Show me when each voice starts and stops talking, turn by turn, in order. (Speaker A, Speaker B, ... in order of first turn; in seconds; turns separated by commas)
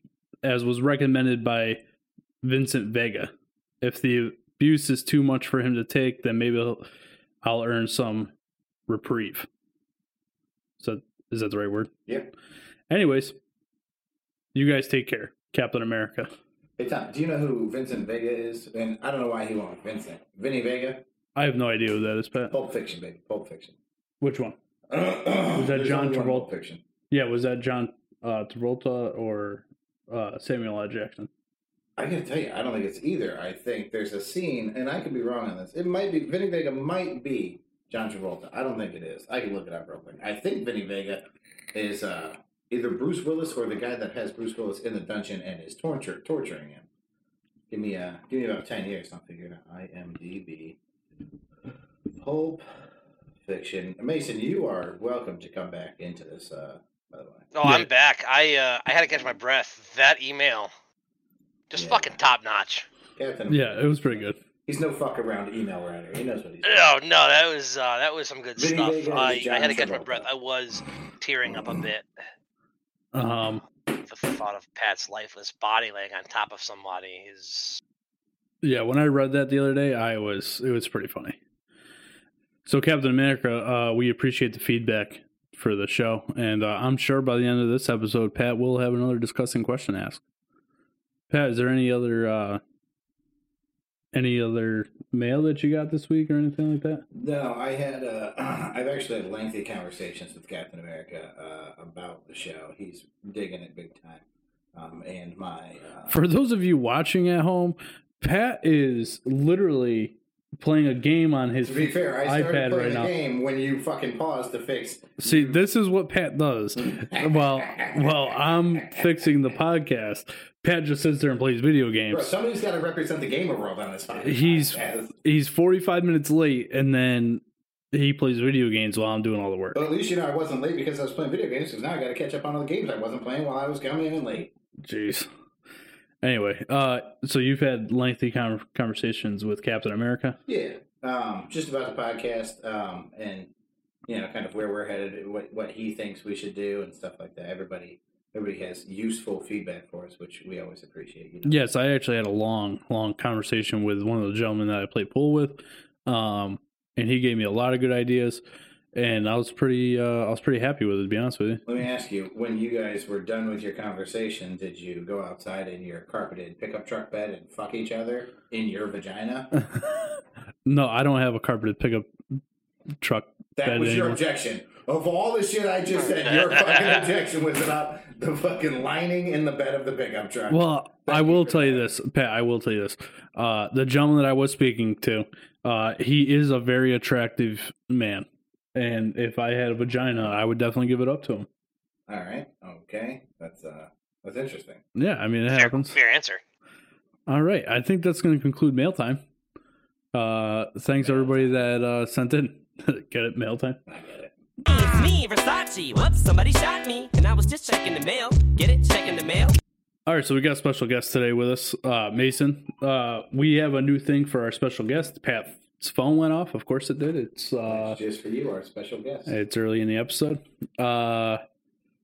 Speaker A: 0.4-1.8, Speaker A: 2.4-6.8, Speaker A: 7.4-8.3, Speaker A: 8.9-9.5, Speaker A: 10.8-11.9, Speaker A: 12.9-13.3, Speaker A: 14.5-16.3, Speaker B: 16.8-21.0, Speaker A: 21.3-22.5, Speaker B: 22.5-23.8, Speaker A: 24.2-24.6, Speaker B: 24.9-26.8, Speaker A: 25.6-26.5, Speaker A: 27.1-31.3, Speaker B: 32.0-46.9, Speaker B: 47.7-50.8, Speaker B: 52.1-52.6, Speaker B: 53.4-57.5, Speaker C: 57.5-60.7, Speaker A: 57.6-57.9, Speaker C: 61.7-62.9, Speaker B: 61.7-62.2, Speaker B: 63.1-66.9, Speaker A: 63.5-64.4, Speaker C: 66.6-72.0, Speaker B: 68.6-70.3, Speaker A: 73.1-73.6, Speaker C: 74.1-77.8, Speaker A: 78.6-81.4, Speaker A: 82.7-90.2, Speaker A: 91.3-92.6, Speaker A: 94.1-97.0, Speaker B: 97.1-104.2, Speaker B: 104.7-106.2, Speaker A: 106.1-113.1, Speaker B: 111.6-115.6, Speaker A: 115.2-122.3, Speaker B: 116.8-119.0, Speaker B: 122.1-125.1, Speaker A: 124.2-129.8, Speaker B: 129.7-134.5, Speaker A: 134.8-135.3, Speaker A: 136.2-140.4, Speaker B: 140.5-143.5, Speaker B: 144.1-151.7, Speaker A: 151.4-158.4, Speaker A: 158.9-161.6, Speaker B: 161.7-169.5, Speaker A: 169.7-170.0, Speaker A: 170.6-172.1, Speaker A: 173.0-174.2, Speaker B: 173.5-181.9, Speaker C: 176.2-177.1, Speaker A: 180.5-191.5, Speaker B: 192.1-194.8, Speaker A: 194.9-196.0, Speaker C: 195.5-196.4, Speaker A: 197.3-199.2, Speaker A: 200.1-203.8, Speaker B: 201.0-201.7, Speaker B: 203.9-204.3, Speaker D: 204.6-209.6, Speaker A: 210.1-218.0, Speaker B: 217.6-219.3, Speaker A: 219.3-221.4